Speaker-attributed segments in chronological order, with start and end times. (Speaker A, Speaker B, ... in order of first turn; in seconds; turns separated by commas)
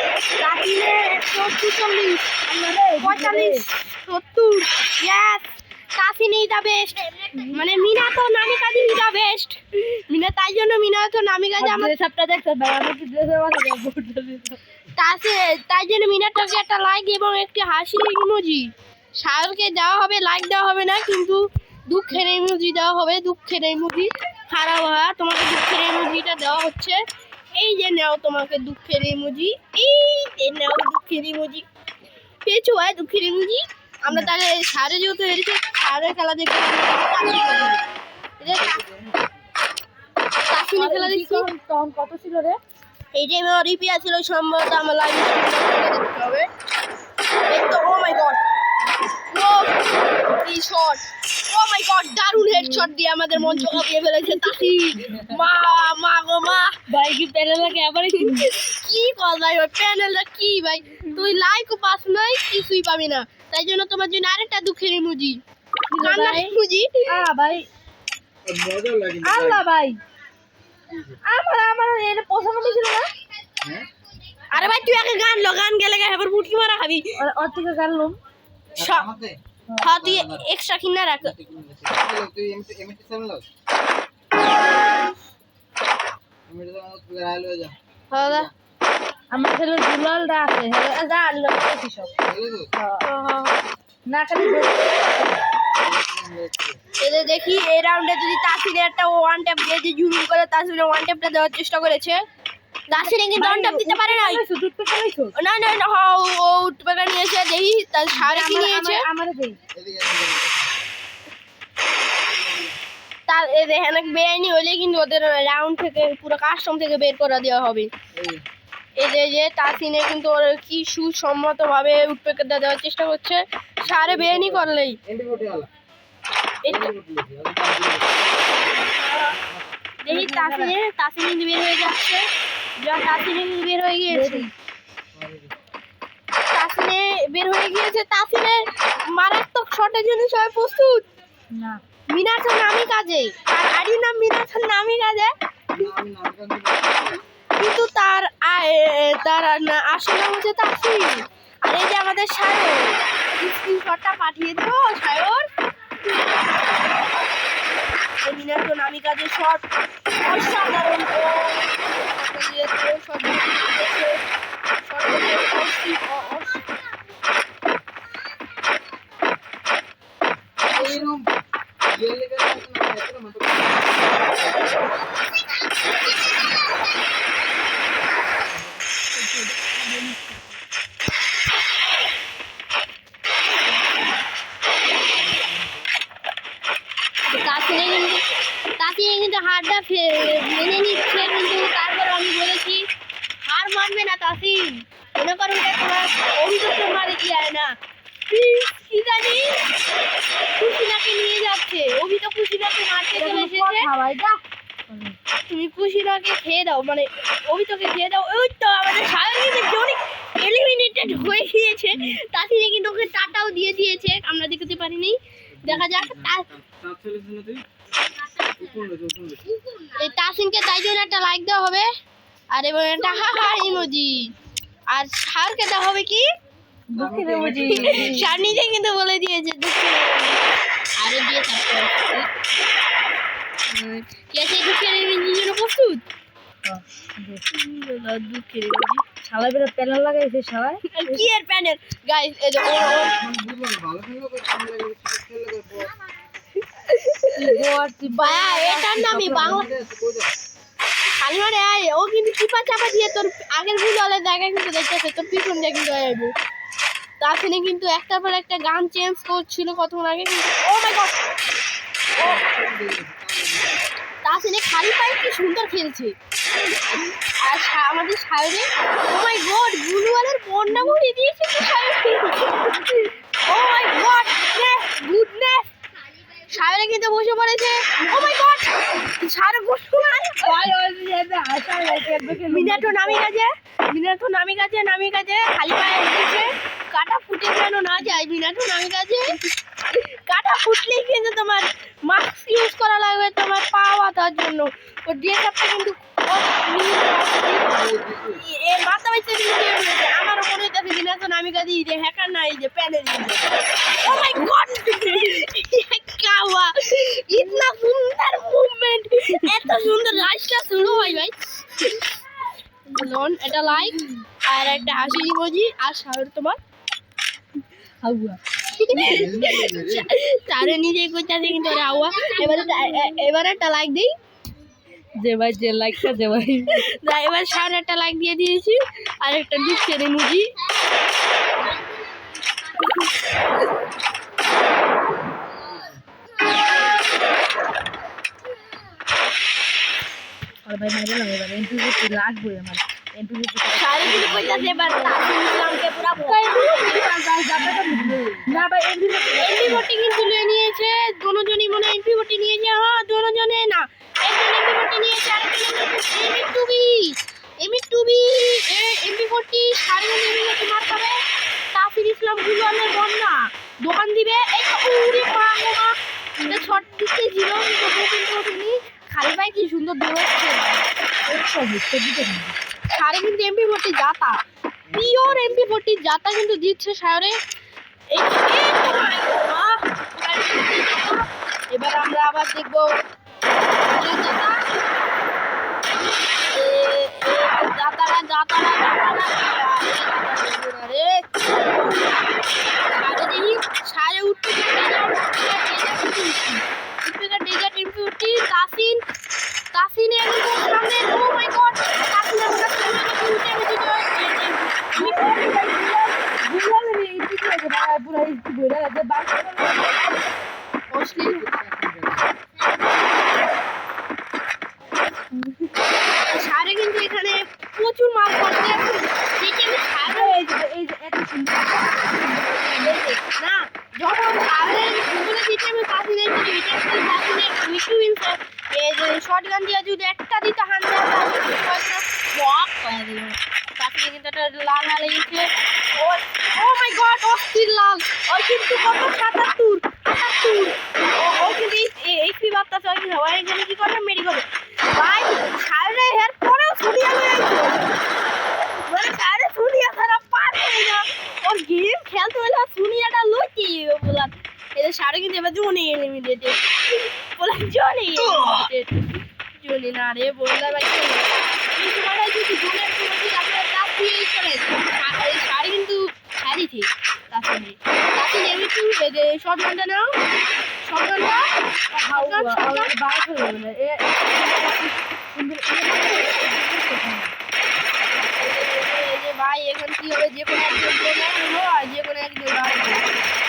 Speaker A: 0.4-2.4, Speaker B: 2.5-3.6, Speaker A: 3.0-11.9, Speaker B: 11.6-14.6, Speaker A: 14.9-27.0, Speaker A: 27.5-31.6, Speaker A: 32.5-37.9, Speaker A: 38.4-38.8, Speaker C: 38.4-39.4, Speaker A: 40.5-41.5, Speaker B: 40.8-42.6, Speaker A: 43.1-46.5, Speaker A: 47.5-48.4, Speaker A: 49.3-56.8, Speaker B: 52.4-53.8, Speaker B: 54.4-55.4, Speaker B: 56.9-58.5, Speaker A: 58.1-65.4, Speaker B: 65.9-66.5, Speaker A: 66.0-67.1, Speaker B: 67.1-67.7, Speaker C: 68.5-69.7, Speaker B: 69.2-70.0, Speaker C: 70.9-71.2, Speaker B: 71.2-73.1, Speaker C: 73.6-73.9, Speaker A: 74.5-77.2, Speaker B: 77.2-78.2, Speaker A: 78.8-79.1, Speaker C: 78.8-79.4, Speaker A: 79.8-81.3, Speaker C: 80.0-80.5, Speaker C: 81.2-83.5, Speaker C: 86.5-88.5, Speaker A: 88.1-88.5, Speaker B: 89.3-92.1, Speaker C: 92.2-92.7, Speaker B: 92.8-93.0, Speaker A: 93.0-93.6, Speaker B: 94.1-95.4, Speaker C: 95.8-96.8, Speaker A: 97.0-102.2, Speaker B: 102.9-105.3, Speaker A: 102.9-104.4, Speaker A: 105.3-109.0, Speaker B: 108.1-109.6, Speaker C: 109.7-110.8, Speaker C: 112.2-112.8, Speaker A: 113.3-117.9, Speaker C: 118.2-118.4, Speaker A: 119.0-125.0, Speaker C: 123.8-125.7, Speaker A: 126.6-126.9, Speaker C: 126.7-128.7, Speaker C: 129.3-129.7, Speaker A: 130.0-132.3, Speaker B: 130.1-130.8, Speaker A: 132.8-134.5, Speaker B: 134.1-134.5, Speaker C: 135.1-135.5, Speaker A: 136.5-141.1, Speaker B: 141.5-141.8, Speaker A: 142.1-145.3, Speaker C: 145.7-147.2, Speaker A: 147.6-155.5, Speaker A: 158.2-159.7, Speaker A: 160.2-164.2, Speaker A: 164.8-166.7, Speaker C: 170.7-174.1, Speaker B: 170.8-171.0, Speaker C: 178.4-178.8, Speaker B: 179.2-180.4, Speaker C: 185.1-185.9, Speaker A: 187.3-188.2, Speaker A: 188.8-192.8, Speaker A: 193.4-197.7, Speaker A: 198.3-199.6, Speaker A: 200.6-203.9, Speaker B: 203.2-205.2, Speaker A: 205.5-216.5, Speaker C: 215.6-217.6, Speaker C: 218.4-219.4, Speaker A: 219.9-221.9, Speaker A: 222.5-224.3, Speaker A: 224.9-226.3, Speaker B: 226.9-228.3, Speaker C: 226.9-228.7, Speaker A: 227.7-230.4, Speaker A: 231.0-232.3, Speaker A: 233.7-236.0, Speaker B: 236.7-237.4, Speaker A: 237.5-239.0, Speaker B: 239.3-241.2, Speaker A: 240.9-243.2, Speaker C: 242.9-245.9, Speaker A: 246.8-247.6, Speaker B: 247.3-249.7, Speaker A: 248.1-249.7, Speaker C: 249.1-250.3, Speaker A: 251.2-256.3, Speaker A: 257.2-261.2, Speaker C: 262.2-263.8, Speaker A: 264.2-266.1, Speaker A: 267.4-272.7, Speaker B: 272.6-273.1, Speaker A: 273.4-275.7, Speaker A: 276.4-280.6, Speaker B: 280.4-283.2, Speaker A: 282.5-289.4, Speaker A: 289.9-297.7, Speaker C: 297.7-298.4, Speaker A: 298.3-311.9, Speaker A: 312.9-316.6, Speaker B: 318.0-320.0, Speaker A: 318.7-324.1, Speaker C: 318.9-320.1, Speaker B: 321.7-323.1, Speaker B: 325.2-326.9, Speaker A: 326.7-330.5, Speaker B: 340.7-345.2, Speaker A: 343.7-346.8, Speaker B: 346.2-349.9, Speaker A: 349.4-361.2, Speaker A: 361.7-370.9, Speaker B: 366.4-366.7, Speaker B: 371.3-372.6, Speaker A: 372.9-374.4, Speaker C: 374.9-375.8, Speaker A: 374.9-377.4, Speaker A: 378.1-382.9, Speaker A: 383.9-384.6, Speaker A: 386.4-399.0, Speaker A: 399.7-405.5, Speaker B: 404.9-410.2, Speaker A: 410.9-411.4, Speaker C: 411.1-412.3, Speaker B: 415.3-415.7, Speaker A: 416.2-420.4, Speaker B: 420.1-423.0, Speaker A: 422.8-448.0, Speaker A: 448.6-459.1, Speaker A: 459.6-470.1, Speaker A: 470.8-471.5, Speaker B: 471.9-477.3, Speaker A: 472.1-472.9, Speaker A: 478.1-483.1